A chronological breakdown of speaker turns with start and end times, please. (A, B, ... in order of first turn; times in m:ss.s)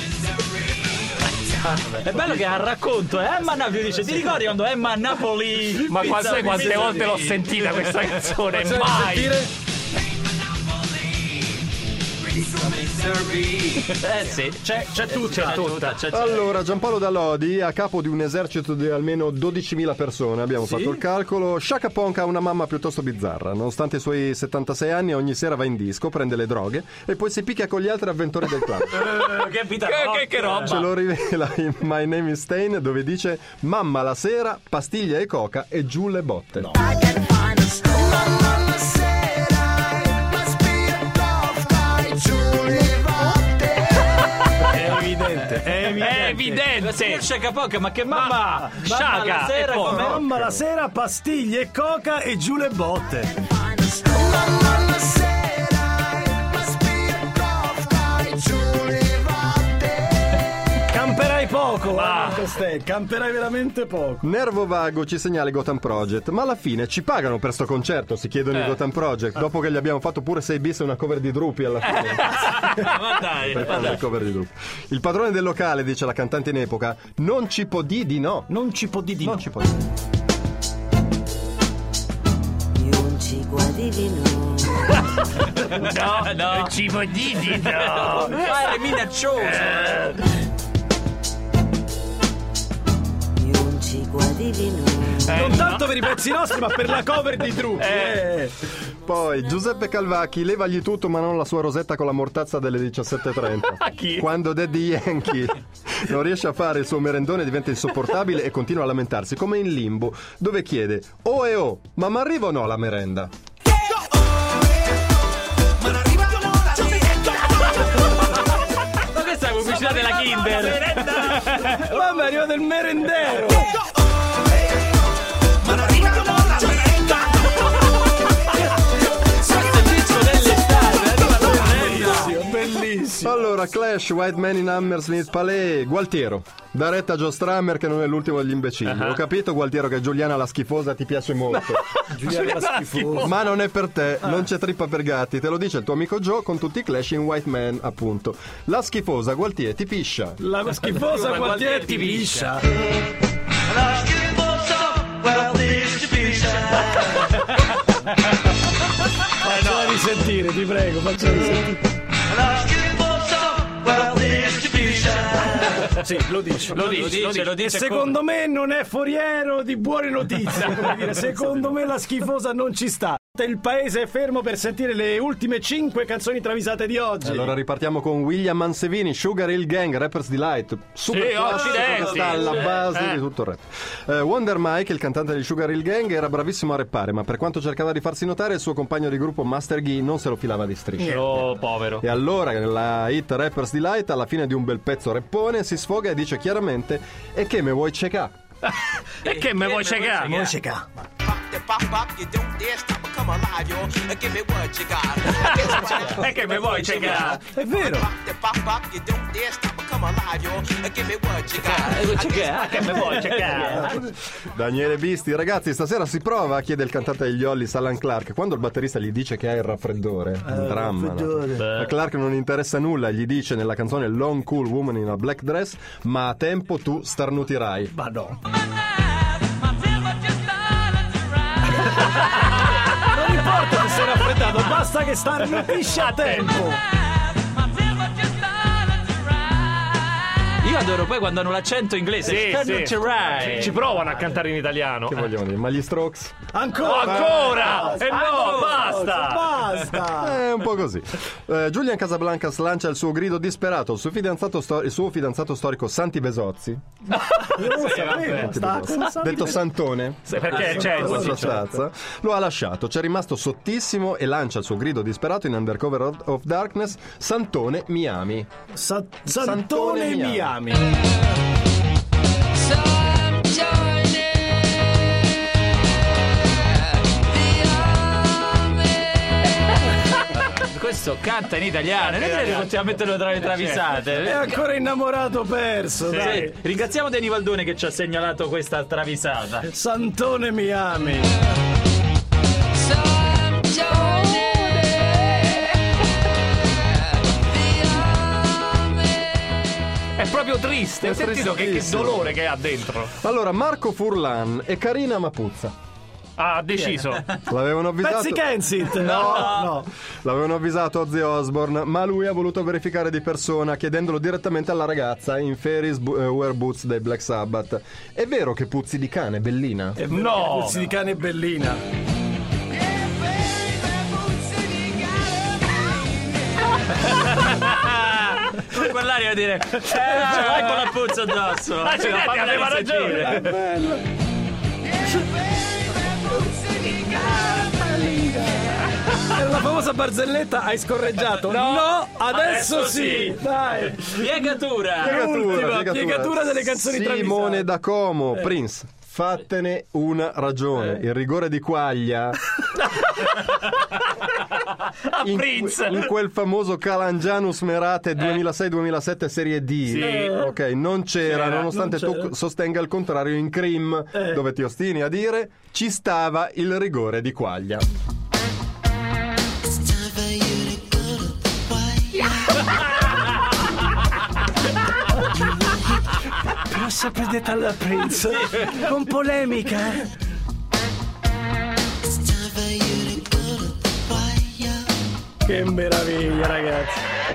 0:01.9-0:07.4 A
0:05.8-0:09.4 B
0:06.0-0:07.2 C
0:08.5-0:09.5 C
0:12.4-0:16.6 A
0:15.2-0:16.0 B
0:16.1-0:29.0 D
0:20.6-0:21.0 A
0:28.9-0:30.9 A
0:29.8-0:30.8 B
0:30.6-0:36.7 D
0:36.6-0:46.7 C
0:45.7-0:47.2 B
0:46.8-0:50.2 A
0:48.1-0:50.2 B
0:48.1-0:49.0 C
0:49.8-1:04.2 C
0:50.0-0:50.6 D
1:01.9-1:02.5 B
1:04.2-1:18.5 D
1:12.2-1:14.0 A
1:18.5-1:19.4 C
1:19.2-1:19.8 D
1:22.8-1:24.6 E
1:24.6-1:28.6 B
1:25.5-1:26.8 A
1:27.5-1:30.0 A
1:29.4-1:30.3 B
1:33.4-1:34.9 E
1:35.0-1:36.1 B
1:35.3-1:38.5 C
1:37.8-1:38.2 B
1:39.0-1:53.3 D
1:43.8-1:44.3 B
1:59.0-2:02.0 A
2:01.1-2:03.7 C
2:05.8-2:07.0 C
2:09.3-2:12.4 A
2:11.4-2:13.4 C
2:13.2-2:21.8 D
2:18.8-2:19.2 B
2:21.8-2:23.3 B
2:22.1-2:23.3 C
2:23.2-2:30.4 D
2:30.4-2:32.7 C
2:31.0-2:32.4 A
2:33.8-2:37.4 A
2:39.3-2:41.8 C
2:39.4-2:39.9 A
2:42.4-2:45.6 A
2:45.0-2:57.5 C
2:46.7-2:47.5 B
2:46.7-2:48.1 A
2:51.0-2:51.5 B
2:57.2-3:18.3 D
3:01.1-3:03.2 B
3:11.0-3:12.0 B
3:19.2-3:20.5 B
3:19.2-3:20.5 A
3:20.2-3:20.9 C
3:21.2-3:27.3 F
3:25.3-3:27.4 B
3:25.8-3:27.4 A
3:27.3-3:28.1 C
3:27.9-3:33.4 F
3:31.6-3:34.0 A
3:32.7-3:34.0 B
3:33.0-3:34.0 C
3:34.5-3:47.9 D
3:40.5-3:41.6 C
3:41.6-3:41.9 B
3:47.9-3:48.4 C
3:52.0-3:56.8 C
3:56.0-3:56.5 B
4:00.6-4:03.8 A
4:02.2-4:05.2 B
4:05.1-4:06.4 D
4:06.5-4:10.4 C
4:06.8-4:09.8 B
4:08.1-4:08.7 A
4:10.1-4:16.8 D
4:17.2-4:18.3 B
4:17.4-4:19.6 C
4:17.8-4:28.5 D
4:20.3-4:21.5 B
4:20.4-4:21.6 C
4:28.7-4:31.0 C
4:29.3-4:30.5 D
4:40.5-4:44.4 A
4:42.1-4:42.7 B
4:43.4-4:43.8 B
4:44.2-4:46.6 C
4:46.1-4:46.5 B
4:46.1-4:49.7 A
4:49.7-4:51.3 C
4:53.6-4:55.5 B
5:00.2-5:03.1 B
5:01.0-5:02.3 D
5:03.2-5:05.7 D
5:06.4-5:07.3 B
5:07.5-5:20.0 D
5:08.0-5:09.9 C
5:09.0-5:09.7 A
5:20.0-5:21.8 C
5:20.1-5:20.9 B
5:27.0-5:33.4 A
5:30.0-5:30.9 B
5:31.8-5:33.6 B
5:33.2-5:34.0 C
5:36.2-5:44.3 C
5:41.4-5:43.3 B
5:42.3-5:43.2 A
5:44.0-5:45.2 A
5:45.0-5:47.7 C
5:45.0-5:52.5 D
5:53.3-5:53.7 B
5:55.0-5:56.1 B
5:55.2-6:07.8 D
5:59.9-6:00.3 B
6:00.0-6:00.5 C
6:01.5-6:02.3 C
6:04.1-6:04.4 C
6:16.5-6:20.1 C
6:18.2-6:18.8 A
6:25.4-6:27.0 C